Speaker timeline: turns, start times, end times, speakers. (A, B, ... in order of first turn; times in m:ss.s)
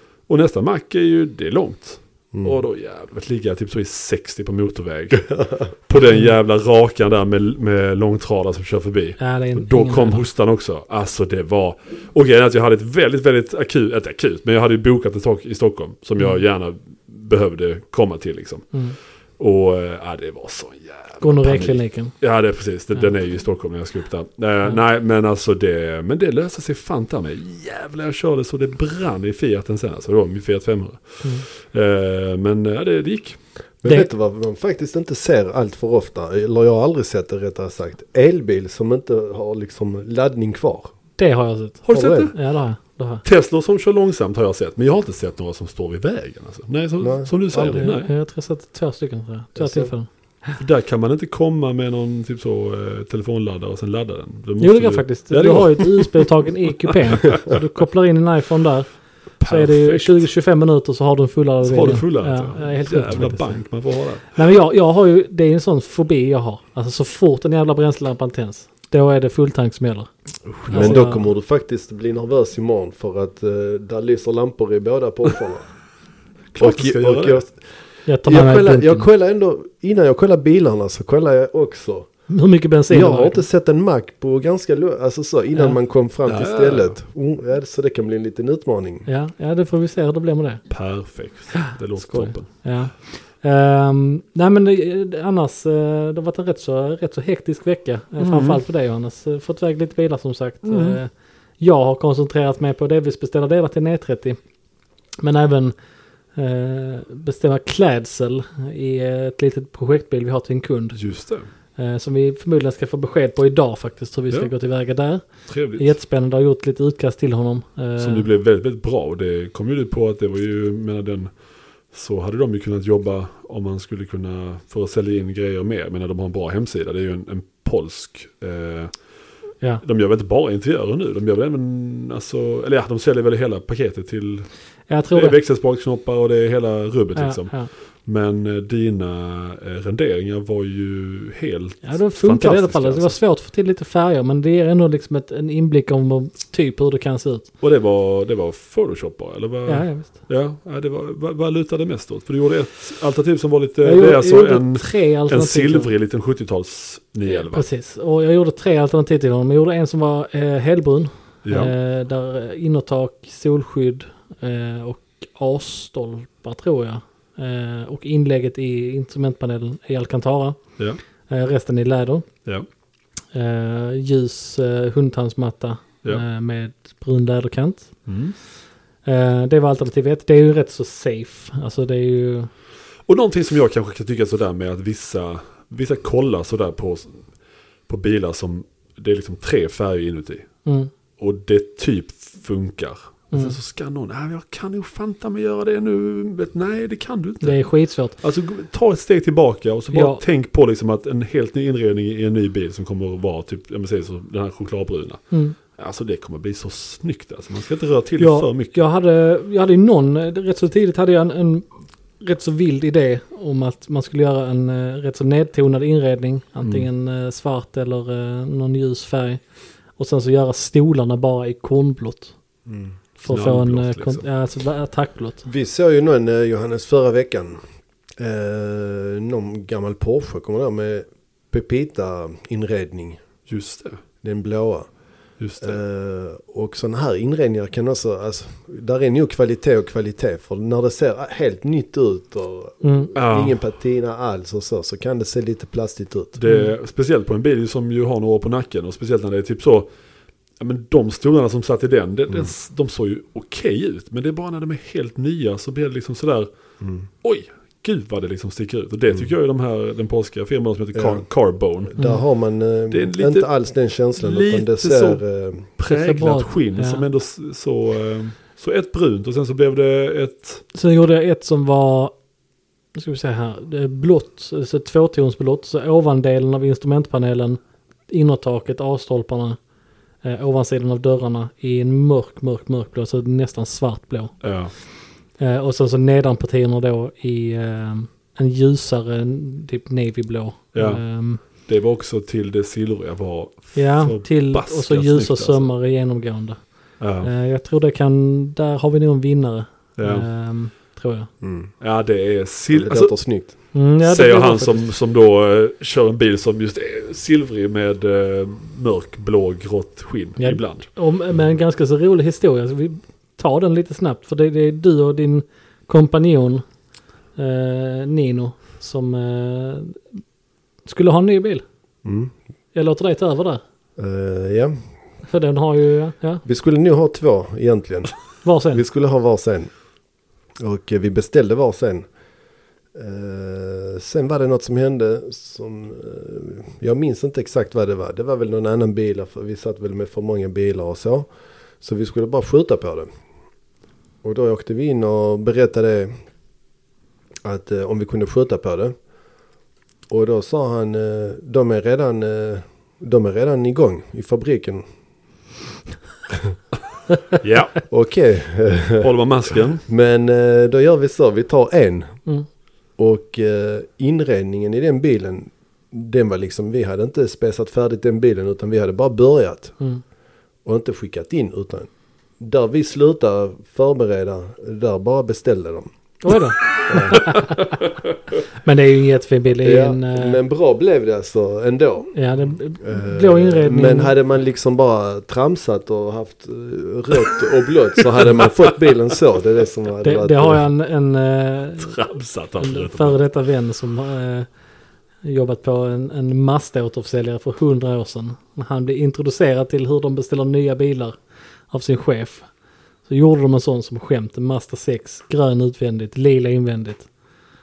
0:00.3-0:18.8 A
0:02.3-0:02.6 B
0:05.2-0:05.7 B
0:09.2-0:10.3 C
0:19.4-0:33.4 A
0:21.2-0:22.1 C
0:33.8-0:40.9 B
0:41.2-0:43.2 C
0:41.9-0:42.4 A
0:41.9-0:42.3 B
0:43.2-0:48.1 A
0:47.0-0:47.9 B
0:47.7-0:50.6 C
0:49.6-0:49.9 B
0:50.6-0:56.2 A
0:54.6-0:58.9 C
0:56.9-0:57.4 A
0:59.4-1:00.2 A
0:59.4-1:03.7 C
1:01.6-1:04.4 A
1:04.3-1:10.1 C
1:10.5-1:11.0 A
1:10.7-1:11.2 C
1:10.7-1:15.7 B
1:16.6-1:17.4 A
1:16.6-1:17.6 B
1:18.1-1:19.1 C
1:18.2-1:22.1 B
1:22.3-1:23.4 C
1:22.9-1:29.1 B
1:26.3-1:27.0 A
1:29.1-1:30.6 C
1:30.7-1:32.6 A
1:31.5-1:44.4 C
1:38.2-1:38.6 A
1:40.6-1:41.0 A
1:45.2-1:45.8 C
1:46.4-1:51.0 C
1:50.9-1:51.5 A
1:51.8-1:58.3 C
1:55.5-1:55.9 A
1:58.0-2:01.3 A
2:01.9-2:08.9 A
2:09.8-2:14.5 A
2:14.9-2:15.4 C
2:15.1-2:23.2 A
2:17.2-2:17.7 C
2:21.8-2:27.5 C
2:27.6-2:37.7 A
2:29.7-2:30.2 C
2:33.8-2:35.9 C
2:37.2-2:50.6 C
2:41.4-2:41.7 A
2:51.3-2:52.3 C
2:53.3-2:57.9 C
2:58.1-2:58.4 A
2:59.0-3:02.5 C
3:03.1-3:07.2 A
3:07.9-3:10.5 A
3:10.6-3:10.9 C
3:11.2-3:17.6 A
3:13.3-3:13.6 C
3:17.4-3:18.2 C
3:18.2-3:28.8 A
3:19.9-3:20.2 C
3:25.3-3:25.6 C
3:28.2-3:31.7 C
3:32.2-3:39.4 C
3:36.6-3:36.9 A
3:40.0-3:42.4 C
3:42.7-3:43.0 B
3:43.2-3:45.5 C
3:43.3-3:44.3 A
3:45.4-3:47.6 B
3:48.2-3:53.2 B
3:53.5-3:54.0 A
3:54.2-3:54.9 B
3:55.4-3:55.8 A
3:55.6-4:06.4 B
4:02.8-4:03.1 C
4:03.2-4:03.6 A
4:06.4-4:09.9 A
4:06.5-4:06.7 C
4:10.6-4:16.5 A
4:16.8-4:17.1 B
4:17.2-4:22.0 A
4:21.0-4:21.3 B
4:21.9-4:25.7 B
4:22.9-4:23.5 A
4:24.2-4:30.6 A
4:25.9-4:27.0 C
4:30.7-4:32.2 C
4:33.0-4:39.6 C
4:40.2-4:44.4 C
4:44.4-4:44.7 A
4:45.4-4:51.4 C
4:50.7-4:55.7 A
4:53.8-4:56.6 C
4:57.0-4:57.3 A
4:57.2-5:01.3 C
5:00.0-5:00.3 A
5:01.4-5:01.7 B
5:01.8-5:03.2 A
5:02.7-5:03.5 B
5:03.7-5:04.9 C
5:04.0-5:10.9 A
5:10.4-5:16.6 C
5:17.4-5:20.0 C
5:20.8-5:21.6 C
5:22.0-5:22.3 B
5:22.7-5:23.6 C
5:24.0-5:24.8 B
5:25.3-5:26.4 C
5:26.4-5:28.1 B
5:28.4-5:28.8 C
5:28.7-5:29.7 B
5:30.6-5:32.1 B
5:32.9-5:41.3 B
5:41.8-5:43.1 B
5:44.2-5:46.1 B
5:47.4-5:48.9 B
5:50.1-5:54.8 B
5:56.3-5:56.6 B
5:57.4-5:57.9 A
5:57.9-5:59.1 B
5:59.0-5:59.8 A
5:59.9-6:02.2 B
6:03.0-6:09.8 B
6:10.6-6:15.9 B
6:16.2-6:17.8 C
6:16.9-6:17.3 B
6:17.1-6:17.4 A
6:18.6-6:20.4 C
6:19.6-6:22.1 B
6:22.2-6:24.1 C
6:22.8-6:30.6 B
6:28.3-6:28.9 A
6:30.0-6:32.0 C
6:31.8-6:33.2 A
6:32.6-6:34.5 C
6:35.2-6:41.2 C
6:41.7-6:42.5 C
6:43.1-6:47.1 C